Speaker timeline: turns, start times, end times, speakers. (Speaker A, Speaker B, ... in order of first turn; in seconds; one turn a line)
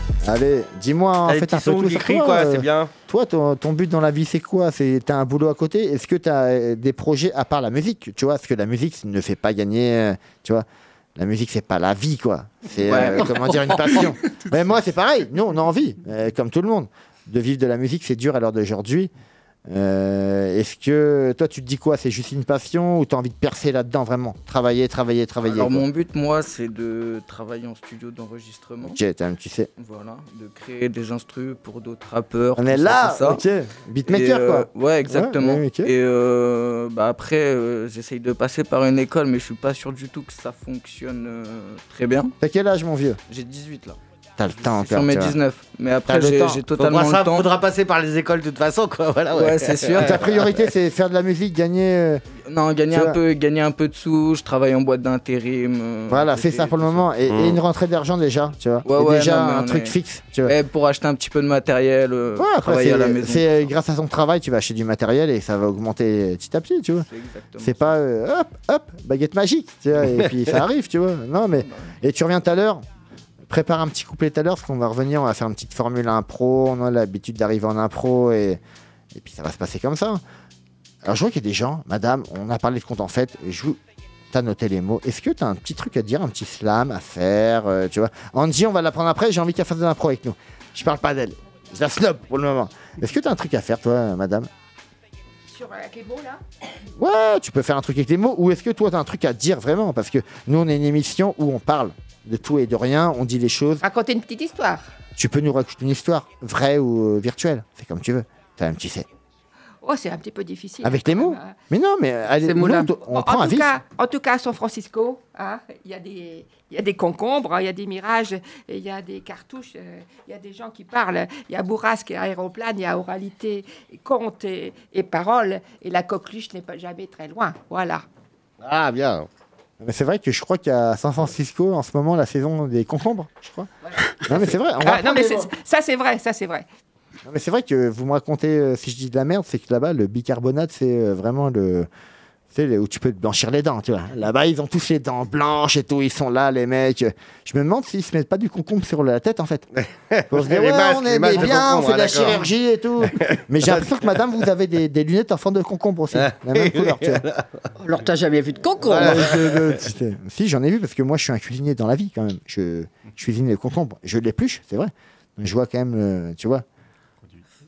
Speaker A: 0.2-19.1
Speaker B: 1.2-2.9
Speaker C: 12.7-14.2
Speaker A: 19.7-25.9
Speaker C: 25.4-29.0
Speaker A: 28.8-29.7
Speaker C: 29.8-33.4
Speaker A: 32.5-35.9
Speaker C: 34.1-42.3
Speaker A: 42.4-43.2
Speaker C: 43.3-44.0
Speaker A: 44.4-45.4
Speaker C: 44.6-47.5
Speaker A: 46.1-46.6
Speaker B: 46.7-50.5
Speaker C: 49.3-50.2
Speaker A: 50.0-52.2
Speaker C: 52.5-57.1
Speaker A: 52.9-53.2
Speaker A: 56.1-60.5
Speaker B: 57.3-57.6
Speaker C: 58.8-59.9
Speaker C: 60.5-63.6
Speaker A: 62.4-67.1
Speaker C: 67.1-68.0
Speaker A: 67.6-72.8
Speaker C: 71.6-72.0
Speaker A: 73.5-78.6
Speaker A: 79.1-80.2
Speaker A: 81.0-83.8
Speaker A: 84.3-94.5
Speaker D: 95.5-96.4
Speaker A: 97.0-103.8
Speaker D: 103.8-104.8
Speaker A: 105.2-109.1
Speaker D: 109.8-111.5
Speaker A: 110.8-113.7
Speaker E: 112.4-112.9
Speaker D: 113.0-128.0
Speaker B: 128.6-129.3
Speaker A: 129.8-133.7
Speaker D: 133.9-136.6
Speaker A: 134.2-135.5
Speaker A: 137.2-141.9
Speaker A: 142.5-149.6
Speaker B: 149.8-152.4
Speaker A: 150.3-157.2
Speaker B: 153.2-153.9
Speaker B: 156.1-157.4
Speaker E: 157.8-159.6
Speaker A: 158.8-166.6
Speaker B: 158.9-159.8